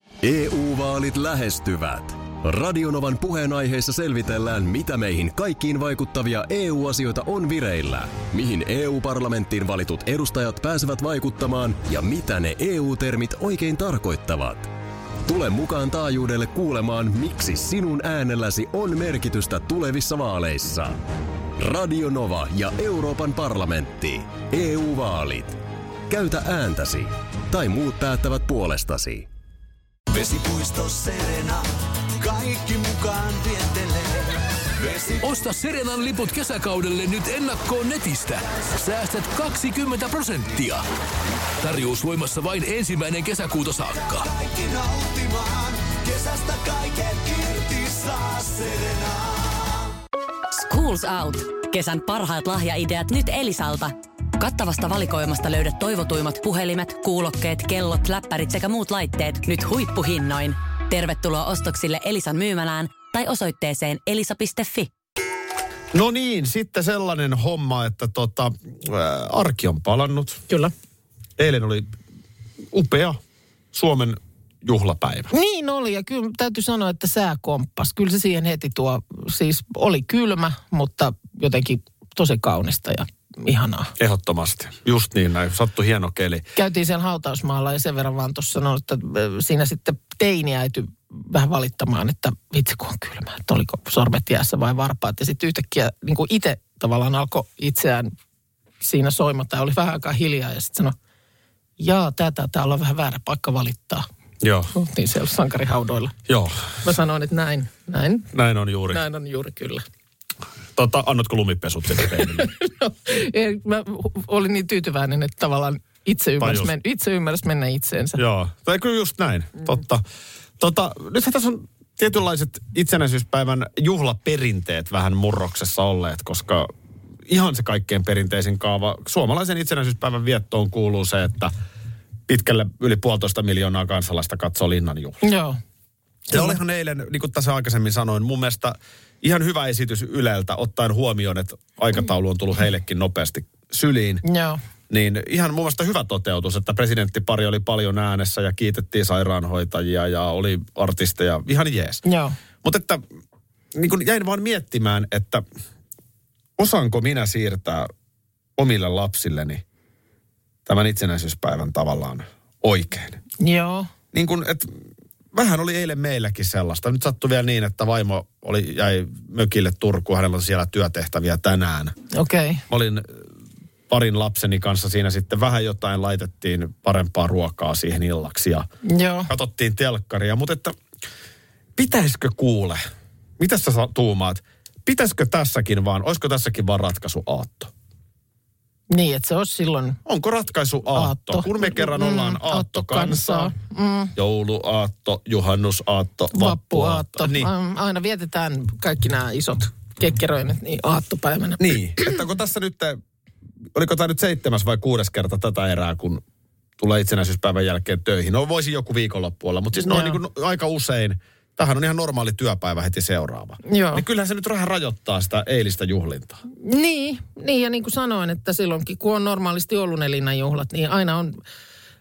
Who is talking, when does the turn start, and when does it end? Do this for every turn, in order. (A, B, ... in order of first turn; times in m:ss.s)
0:00.2-0:14.7 A
0:15.3-0:21.0 A
0:21.6-0:29.3 A
0:30.1-0:35.4 B
0:35.2-0:40.8 C
0:41.6-0:44.3 C
0:44.0-0:49.9 B
0:50.5-1:04.9 D
1:05.9-1:10.4 E
1:11.4-1:11.9 E
1:12.7-1:13.2 E
1:13.7-1:15.3 E
1:15.3-1:23.9 F
1:24.0-1:26.4 E
1:26.6-1:38.1 F
1:38.8-1:41.0 F
1:41.8-1:44.1 F
1:44.4-1:44.7 E
1:44.7-1:46.2 F
1:46.3-1:46.8 E
1:46.8-1:48.3 F
1:48.3-1:49.0 E
1:48.9-1:49.8 F
1:50.8-1:52.5 E
1:52.2-1:58.2 F
1:56.4-1:56.7 E
1:58.2-2:00.0 E
2:00.6-2:06.7 E
2:07.3-2:11.5 E
2:12.3-2:15.2 E
2:15.2-2:15.6 F
2:16.3-2:16.6 F
2:16.3-2:24.2 E
2:24.2-2:24.6 F
2:24.9-2:32.0 E
2:32.0-2:32.4 F
2:32.6-2:33.0 E
2:33.7-2:35.4 E
2:36.6-2:37.9 E
2:38.6-2:39.6 E
2:40.7-2:43.2 E
2:43.4-2:43.9 F
2:44.1-2:44.8 E
2:45.3-2:52.0 E
2:52.1-2:52.6 F
2:52.7-2:53.2 E
2:53.9-2:58.7 E
2:58.8-2:59.3 F
2:59.3-3:00.8 E
3:01.8-3:02.8 E
3:03.4-3:07.7 E
3:08.9-3:10.0 F
3:10.1-3:13.5 E
3:10.9-3:14.1 F
3:14.2-3:17.5 E
3:16.3-3:22.2 F
3:21.6-3:23.0 E
3:23.7-3:26.2 E
3:26.8-3:36.4 E
3:29.8-3:30.2 F
3:33.6-3:34.0 F
3:36.6-3:41.4 F